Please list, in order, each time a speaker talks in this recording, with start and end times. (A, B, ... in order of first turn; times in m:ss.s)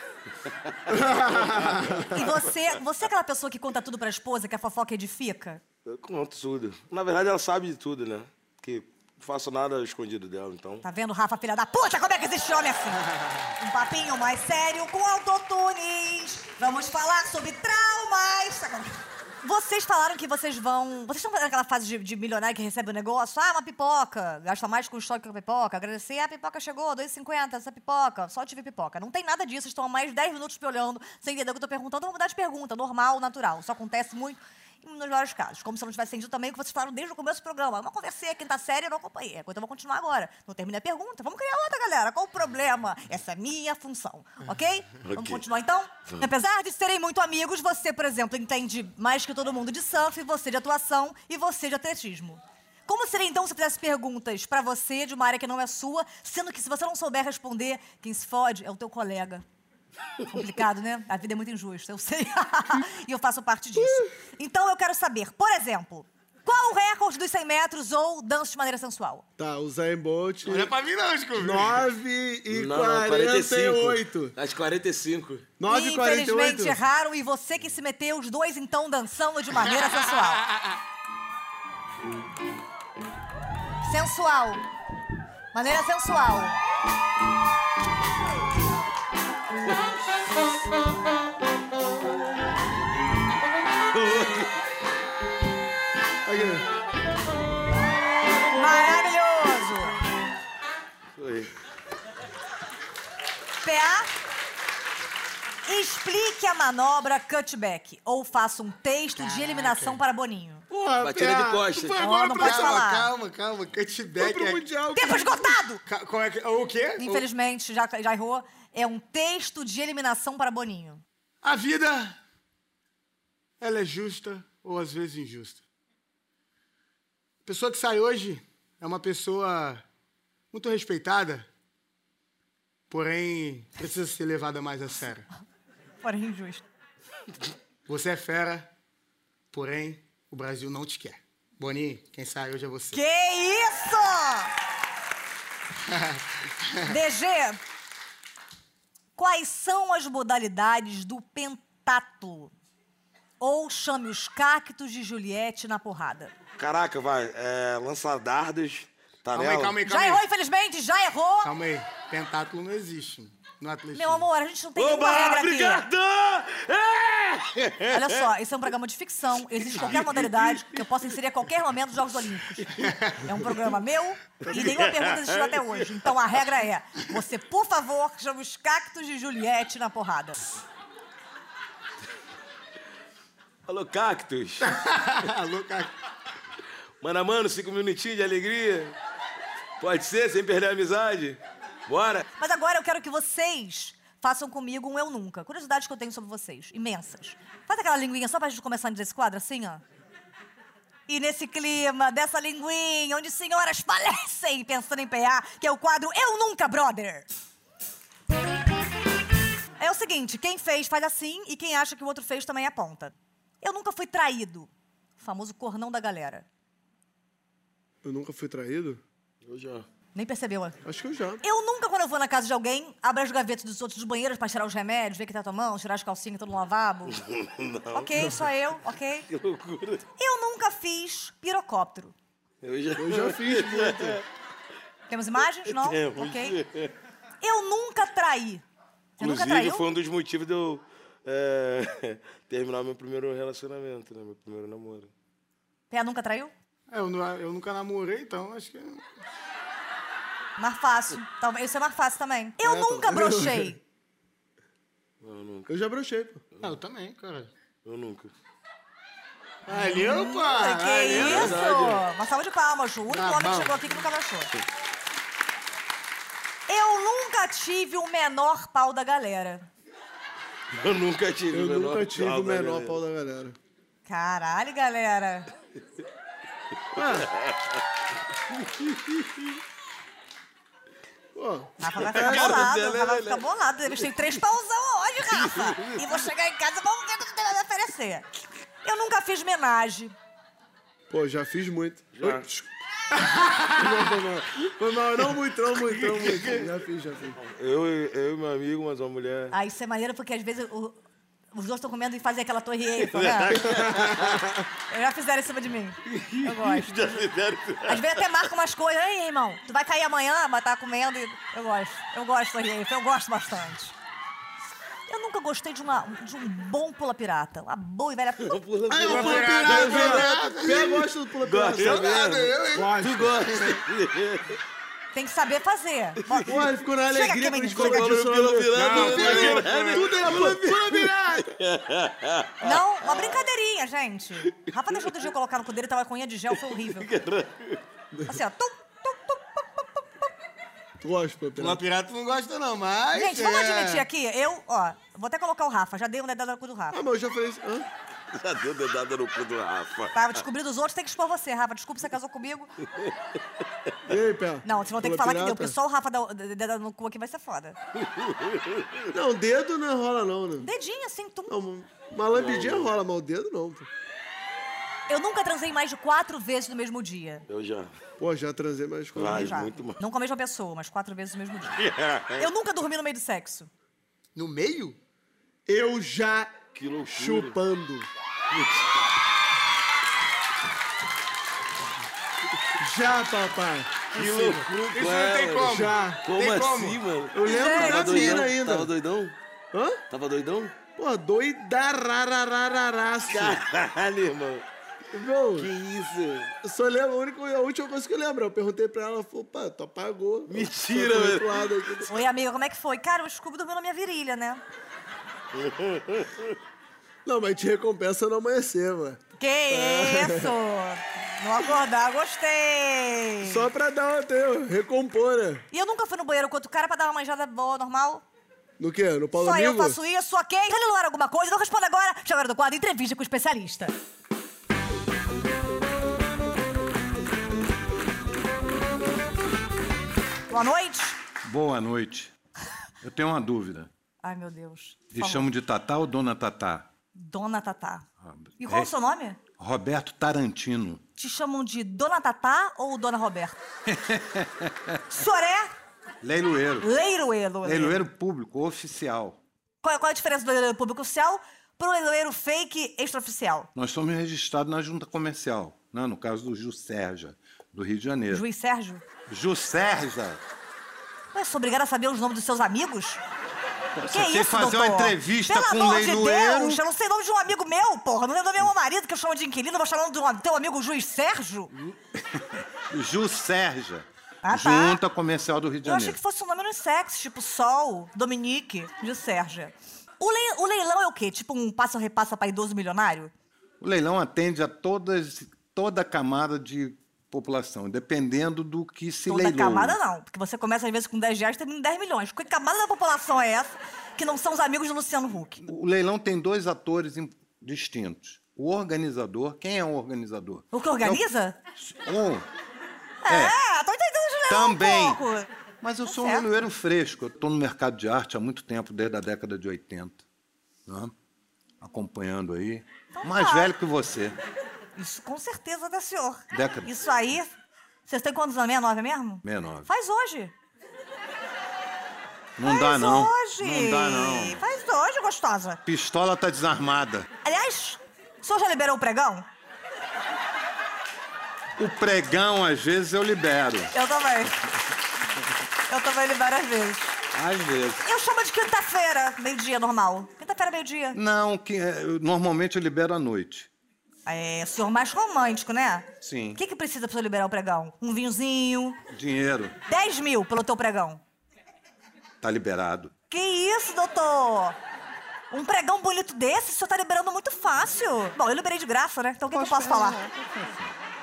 0:00.4-0:02.2 A
0:01.0-0:02.0 B
0:02.1-0:05.6 C
0:05.9-0:10.8 A
0:10.8-0:59.4 C
0:45.0-0:45.4 A
1:00.2-1:09.2 C
1:03.8-1:04.1 B
1:09.4-1:10.7 B
1:10.5-1:11.8 D
1:11.4-1:14.4 B
1:12.5-1:15.5 A
1:15.6-1:16.8 B
1:15.7-1:20.5 C
1:23.8-1:24.6 C
1:25.5-1:26.6 C
1:33.9-1:34.5 A
1:36.2-1:36.7 B
1:38.5-1:40.0 C
1:41.2-1:41.5 A
1:43.6-1:44.1 C
1:45.7-1:50.6 C
1:49.2-1:50.0 D
1:50.7-1:54.6 D
1:51.0-1:51.4 B
1:51.0-1:52.7 A
1:52.0-1:53.1 C
1:54.2-1:55.6 B
1:55.0-1:55.8 C
1:55.9-1:57.3 D
1:57.0-2:01.0 C
2:01.4-2:02.2 D
2:03.6-2:05.6 D
2:07.4-2:09.8 D
2:10.5-2:11.5 D
2:12.9-2:15.3 D
2:16.0-2:16.6 C
2:17.9-2:18.7 D
2:19.5-2:23.0 D
2:22.9-2:24.5 C
2:25.9-2:26.9 D
2:26.8-2:27.6 C
2:29.2-2:32.5 C
2:33.4-2:36.3 C
2:36.6-2:39.8 A
2:39.3-2:40.2 D
2:39.8-2:41.6 C
2:41.4-2:44.3 D
2:43.9-2:45.9 C
2:44.8-2:48.2 A
2:47.9-3:00.5 C
2:49.5-2:50.9 A
2:52.8-2:53.2 D
2:54.4-2:56.0 A
3:03.7-3:04.7 A
3:04.6-3:05.9 D
3:07.0-3:09.0 A
3:09.8-3:12.2 A
3:12.4-3:19.8 C
3:21.1-3:27.3 C
3:29.8-3:36.5 C
3:38.0-3:39.0 B
3:39.4-3:39.9 A
3:40.2-3:40.8 C
3:40.8-3:41.4 B
3:41.4-3:47.2 C
3:47.1-3:48.4 A
3:47.9-3:49.3 C
3:49.3-3:50.0 A
3:50.2-3:52.2 C
3:52.6-3:54.2 A
3:53.0-3:54.2 B
3:55.1-3:56.6 C
3:55.7-3:56.9 A
3:57.4-3:58.6 C
3:59.2-3:59.8 C
3:59.2-4:05.1 A
4:05.9-4:06.5 C
4:06.9-4:09.0 D
4:10.6-4:13.8 C
4:12.6-4:13.7 B
4:15.2-4:15.7 A
4:15.7-4:16.4 B
4:16.6-4:17.5 D
4:17.8-4:18.3 A
4:19.7-4:21.6 D
4:19.7-4:24.5 C
4:21.1-4:22.0 A
4:23.1-4:23.9 D
4:26.7-4:29.7 C
4:30.7-4:33.0 A
4:31.5-4:33.6 B
4:34.1-4:35.5 C
4:36.9-4:37.3 B
4:37.3-4:37.7 A
4:38.6-4:39.2 A
4:41.4-4:42.7 B
4:41.8-4:48.3 C
4:42.0-4:43.4 A
4:45.3-4:46.0 A
4:48.8-4:50.2 C
4:51.1-4:52.5 B
4:52.2-4:52.5 A
4:53.7-4:57.4 B
4:55.9-4:56.6 A
4:57.4-4:59.5 A
4:59.5-5:01.0 C
5:01.5-5:03.8 C
5:03.0-5:04.5 A
5:04.9-5:06.9 C
5:06.1-5:08.1 A
5:07.8-5:14.0 C
5:15.1-5:18.6 C
5:18.4-5:20.4 A
5:18.9-5:22.3 B
5:19.0-5:21.1 D
5:21.4-5:24.6 A
5:21.7-5:23.8 D
5:25.1-5:26.6 C
5:26.3-5:26.5 A
5:26.4-5:31.5 B
5:27.1-5:28.2 C
5:27.7-5:33.4 A
5:28.7-5:30.2 D
5:32.6-5:37.1 C
5:36.8-5:37.8 A
5:38.3-5:40.1 C
5:41.0-5:41.8 B
5:41.6-5:44.1 D
5:43.1-5:47.0 C
5:46.9-5:47.9 B
5:48.3-5:50.4 A
5:50.1-5:52.7 C
5:54.1-5:55.8 B
5:54.6-5:57.8 C
5:58.0-5:58.9 A
5:59.1-6:00.7 B
6:00.6-6:01.6 C
6:01.5-6:03.9 B
6:02.3-6:02.9 A
6:05.1-6:07.4 C
6:07.5-6:07.9 A
6:08.2-6:09.6 B
6:09.2-6:10.0 A
6:09.2-6:11.8 C
6:11.8-6:12.5 A
6:12.4-6:13.7 C
6:14.4-6:15.0 D
6:15.7-6:16.5 B
6:16.7-6:17.6 A
6:17.1-6:18.1 B
6:18.5-6:19.0 A
6:22.8-6:24.1 B
6:24.1-6:29.4 A
6:24.1-6:27.0 D
6:25.7-6:26.2 B
6:27.3-6:28.9 B
6:27.4-6:28.5 C
6:29.7-6:30.0 B
6:30.1-6:30.8 A
6:31.0-6:33.6 B
6:33.3-6:34.6 A
6:35.1-6:35.7 B
6:35.6-6:36.5 A
6:36.6-6:42.1 B
6:40.5-6:41.7 A
6:42.1-6:44.6 C
6:45.6-6:46.4 A
6:47.2-6:50.5 B
6:49.4-6:53.7 C
6:53.4-6:55.6 B
6:55.7-6:58.2 C
6:58.8-7:00.0 B
6:59.4-7:03.9 C
7:10.5-7:11.2 C
7:11.4-7:12.3 E
7:13.0-7:13.9 E
7:14.2-7:15.5 C
7:15.1-7:16.9 E
7:17.2-7:18.1 C
7:18.2-7:18.9 E
7:18.6-7:19.4 C
7:19.5-7:21.0 E
7:21.2-7:23.6 C
7:23.9-7:25.0 E
7:25.1-7:25.7 C
7:26.2-7:26.9 E
7:26.8-7:28.0 C
7:27.6-7:29.4 E
7:29.8-7:33.7 C
7:33.8-7:38.4 E
7:38.3-7:39.0 C
7:39.3-7:40.4 E
7:41.3-7:43.2 C
7:44.0-7:46.8 E
7:44.1-7:51.7 C
7:52.9-7:56.2 E
7:54.4-7:55.0 C
7:55.8-8:03.3 C
8:03.8-8:10.0 E
8:09.3-8:15.7 C
8:15.6-8:21.2 E
8:20.7-8:21.6 C
8:21.8-8:22.5 E
8:23.2-8:25.5 C
8:23.3-8:23.6 E
8:24.5-8:25.2 E
8:25.8-8:30.2 E
8:26.0-8:26.5 C
8:30.9-8:31.1 E
8:31.8-8:34.4 E
8:33.1-8:33.7 C
8:35.0-8:37.5 C
8:36.5-8:36.9 E
8:38.1-8:40.5 C
8:39.4-8:39.9 E
8:42.6-8:44.6 E
8:42.6-8:45.8 C
8:45.8-8:47.3 E
8:47.4-8:49.4 C
8:51.8-8:53.9 E
8:53.9-8:54.5 C
8:55.9-8:57.2 C
8:57.3-8:58.0 E
8:58.0-9:01.2 C
9:01.1-9:03.7 E
9:04.3-9:09.0 C
9:06.2-9:06.6 E
9:09.1-9:09.7 E
9:09.9-9:11.2 C
9:12.4-9:13.1 E
9:13.3-9:14.8 C
9:15.5-9:20.2 C
9:19.5-9:20.9 E